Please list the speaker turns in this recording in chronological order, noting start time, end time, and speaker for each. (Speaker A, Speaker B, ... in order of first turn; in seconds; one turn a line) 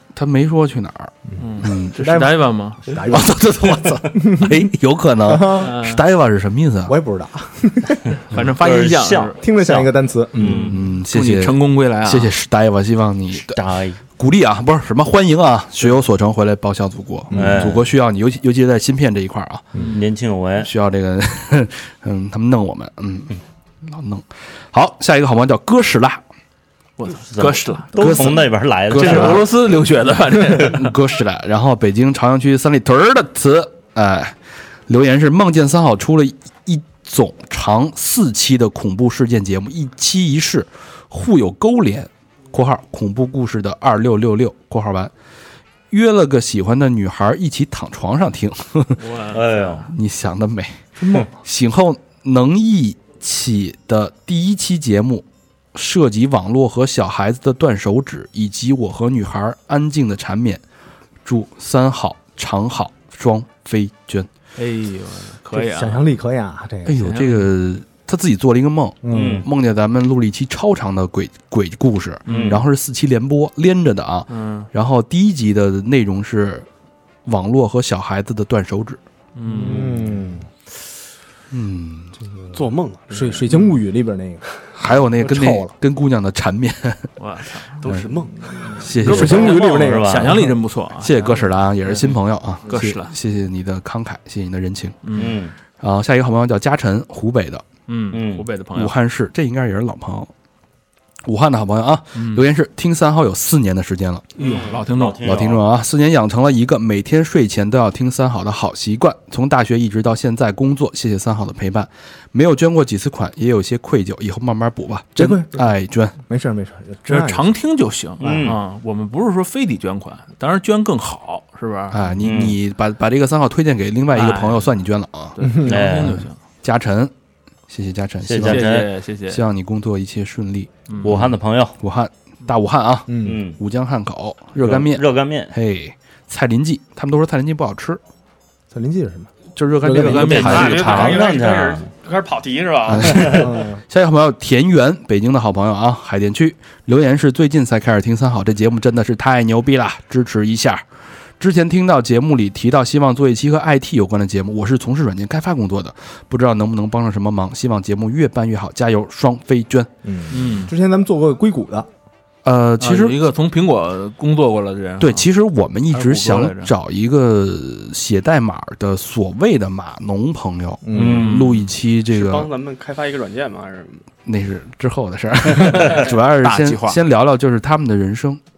Speaker A: 0.1-2.0
Speaker B: 1.4-2.9
Speaker C: 1.6-3.5
Speaker A: 3.0-6.9
Speaker C: 4.1-4.7
Speaker C: 5.2-5.8
Speaker B: 5.6-6.0
Speaker C: 6.9-8.1
Speaker B: 8.3-9.4
Speaker D: 8.6-10.8
Speaker C: 9.4-10.8
Speaker A: 10.5-19.8
Speaker B: 11.0-12.3
Speaker D: 13.5-14.0
Speaker C: 17.3-17.8
Speaker D: 17.3-17.9
Speaker D: 19.9-20.7
Speaker A: 20.6-23.3
Speaker A: 23.8-26.2
Speaker B: 27.0-28.1
Speaker D: 27.2-29.5
Speaker A: 27.9-29.5
Speaker B: 28.9-30.9
Speaker A: 30.5-34.4
Speaker A: 34.9-45.1
Speaker A: 45.9-49.2
Speaker B: 49.0-49.9
Speaker D: 49.3-49.9
Speaker A: 49.9-60.6
Speaker A: 61.2-64.3
Speaker B: 64.6-66.0
Speaker C: 65.5-67.0
Speaker A: 66.9-76.7
Speaker B: 67.0-67.5
Speaker C: 69.0-69.5
Speaker D: 69.1-69.5
Speaker B: 72.3-72.6
Speaker D: 72.3-72.6
Speaker B: 74.3-74.7
Speaker A: 77.2-79.0
Speaker B: 79.4-80.1
Speaker C: 79.5-80.5
Speaker A: 81.5-82.2
Speaker C: 82.2-85.7
Speaker E: 82.5-83.4
Speaker A: 84.8-87.1
Speaker B: 87.2-87.8
Speaker E: 87.8-88.8
Speaker C: 88.5-90.5
Speaker A: 88.7-89.6
Speaker B: 89.0-93.1
Speaker D: 89.1-90.4
Speaker A: 91.0-95.2
Speaker B: 95.0-95.4
Speaker D: 95.2-95.5
Speaker A: 95.8-97.7
Speaker B: 97.9-98.9
Speaker D: 98.1-98.5
Speaker A: 98.7-100.3
Speaker A: 101.2-104.3
Speaker B: 102.2-102.5
Speaker B: 104.4-105.5
Speaker D: 104.4-105.7
Speaker A: 105.2-116.1
Speaker C: 115.2-117.5
Speaker B: 117.1-122.0
Speaker D: 118.2-118.6
Speaker A: 121.9-125.4
Speaker D: 122.2-122.6
Speaker B: 124.1-124.7
Speaker B: 125.4-126.4
Speaker C: 125.4-126.0
Speaker D: 125.7-126.2
Speaker A: 126.6-127.1
Speaker A: 127.7-138.0
Speaker D: 128.2-128.9
Speaker B: 128.4-129.4
Speaker B: 130.9-131.2
Speaker D: 131.0-131.8
Speaker C: 133.1-133.4
Speaker D: 133.2-133.6
Speaker D: 134.6-135.5
Speaker C: 138.7-139.3
Speaker A: 139.6-141.2
Speaker C: 139.8-140.5
Speaker B: 139.9-141.1
Speaker D: 140.2-141.8
Speaker E: 140.3-143.4
Speaker A: 142.9-150.8
Speaker D: 143.0-143.5
Speaker C: 143.3-143.8
Speaker A: 151.4-159.9
Speaker C: 160.0-161.9
Speaker B: 160.3-160.7
Speaker A: 162.4-163.2
Speaker B: 162.8-165.3
Speaker A: 165.0-172.5
Speaker B: 165.9-166.7
Speaker C: 170.8-171.3
Speaker D: 170.9-171.4
Speaker B: 171.0-171.7
Speaker E: 172.1-174.0
Speaker A: 174.2-178.4
Speaker B: 176.4-177.0